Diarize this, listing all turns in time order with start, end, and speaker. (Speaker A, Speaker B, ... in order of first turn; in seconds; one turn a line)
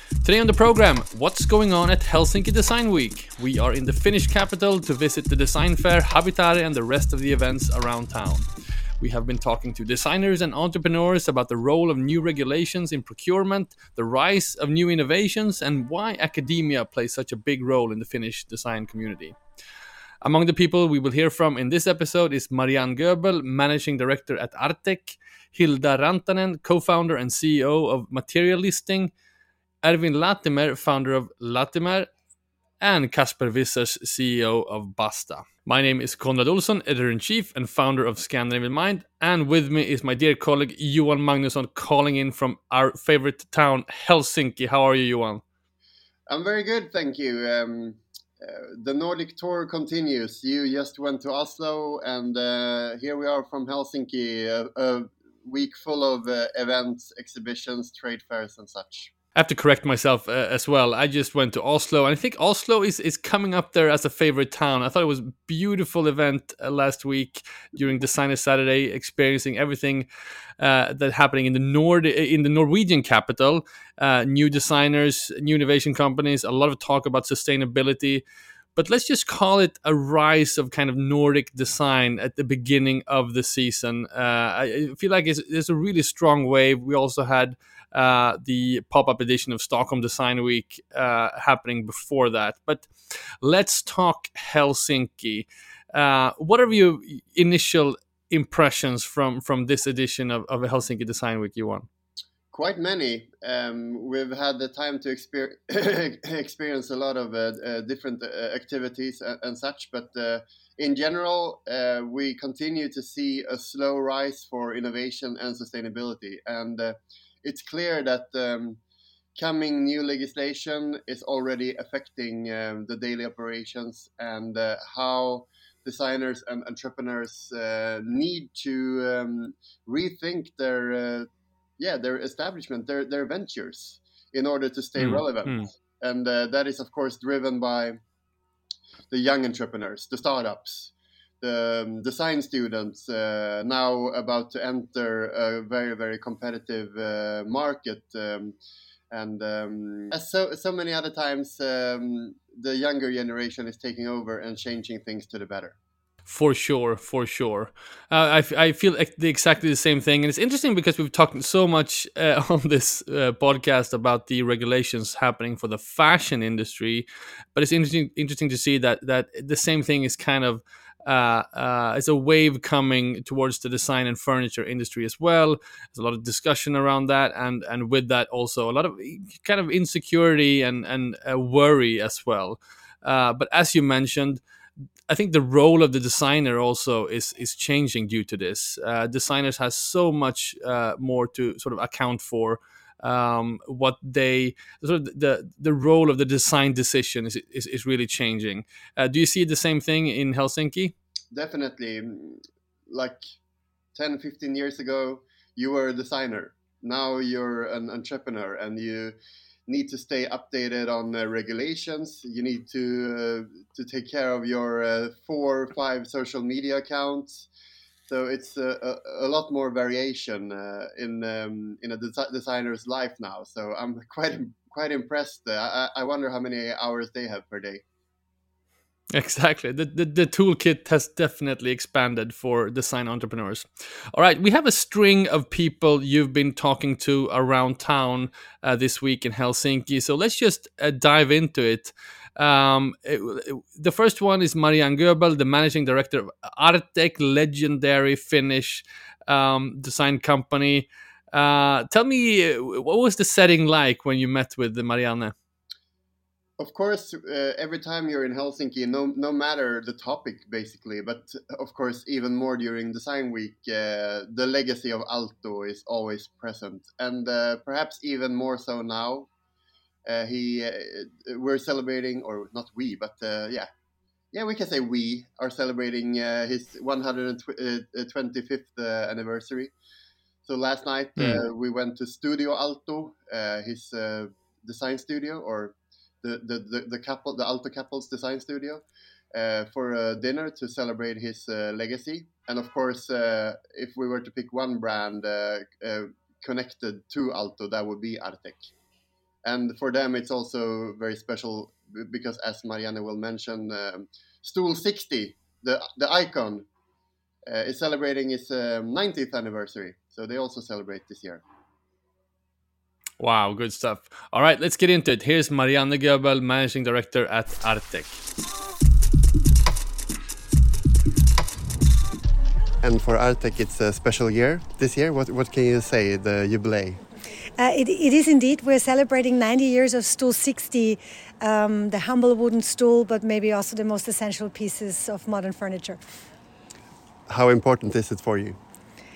Speaker A: 0.2-8.5
Speaker A: 9.0-19.4
Speaker A: 20.2-29.1
Speaker A: 29.8-32.1
Speaker A: 32.8-45.4
Speaker B: 46.3-59.1
Speaker A: 59.4-70.1
Speaker A: 70.6-78.2
Speaker A: 78.8-92.9
Speaker A: 93.4-101.9
Speaker B: 102.5-118.8
Speaker B: 119.4-131.3
Speaker B: 131.8-138.0
Speaker A: 135.0-135.7
Speaker B: 139.1-148.6
Speaker B: 149.1-155.8
Speaker A: 156.3-184.4
Speaker A: 185.1-200.9
Speaker B: 201.3-203.2
Speaker B: 203.9-209.2
Speaker B: 209.7-217.5
Speaker B: 218.1-227.8
Speaker A: 229.1-255.3
Speaker B: 256.6-269.3
Speaker B: 270.1-273.7
Speaker B: 274.3-279.7
Speaker B: 280.5-288.8
Speaker A: 281.2-281.4
Speaker B: 289.3-298.7
Speaker B: 299.4-306.7
Speaker B: 307.5-311.4
Speaker A: 313.2-318.2
Speaker B: 322.8-327.0
Speaker C: 327.6-336.0
Speaker B: 337.3-338.6